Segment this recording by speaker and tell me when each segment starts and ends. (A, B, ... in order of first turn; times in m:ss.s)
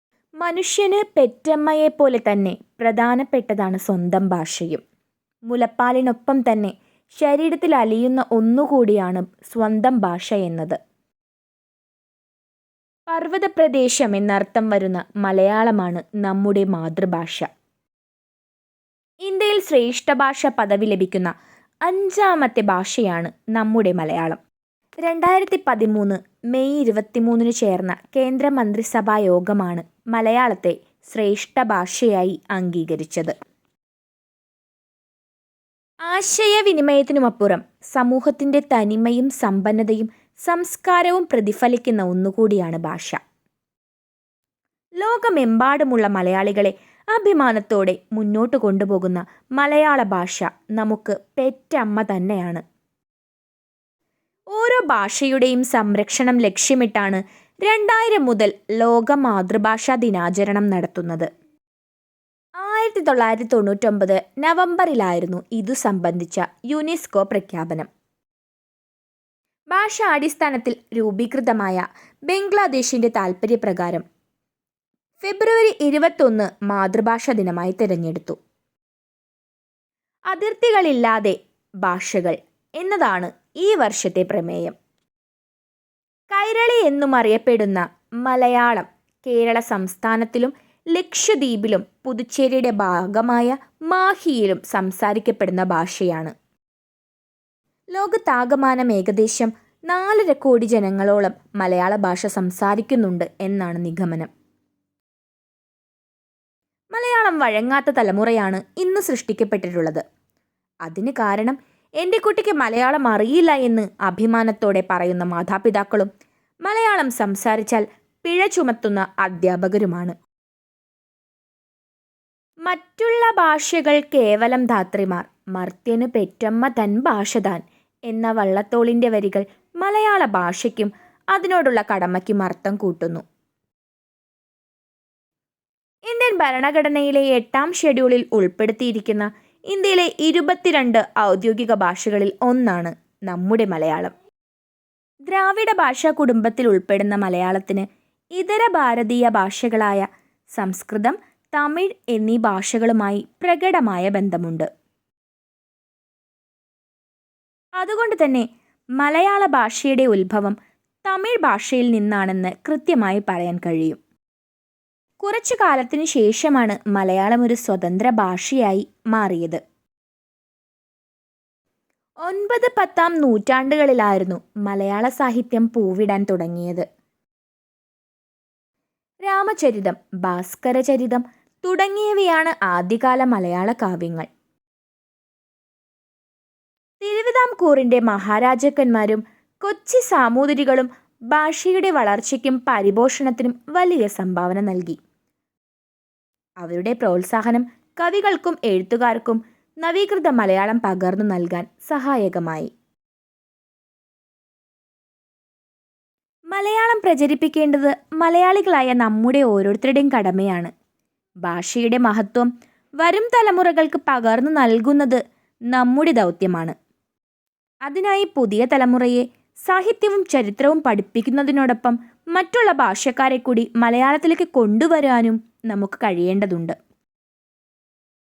0:00.4-0:04.8 A
0:05.5-0:10.8 A
0:13.1-0:17.5 A
0:19.2-0:21.3 A
0:21.9-0:24.4 A
0:25.0-0:33.3 A
0:36.0-0:43.2 A
0:45.0-0:52.6 A
0:54.5-1:01.3 A
1:02.6-1:07.9 A
1:09.7-1:14.0 A
1:15.2-1:18.4 A
1:20.3-1:24.7 A
1:26.3-1:36.3 A
1:37.9-1:44.3 A
1:46.9-1:50.0 A
1:50.8-1:56.1 A
1:56.6-2:00.2 A
2:02.7-2:13.2 A
2:16.1-2:24.1 A
2:25.3-2:30.0 A
2:30.6-2:34.7 A
2:37.8-2:38.5 A
2:39.0-2:44.0 A
2:45.2-2:49.6 A
2:52.2-2:56.9 A
2:59.2-3:04.3 A
3:07.0-3:15.0 A
3:16.6-3:22.7 A
3:26.5-3:30.7 A
3:31.4-3:35.2 A
3:35.7-3:36.8 A
3:37.9-3:46.8 A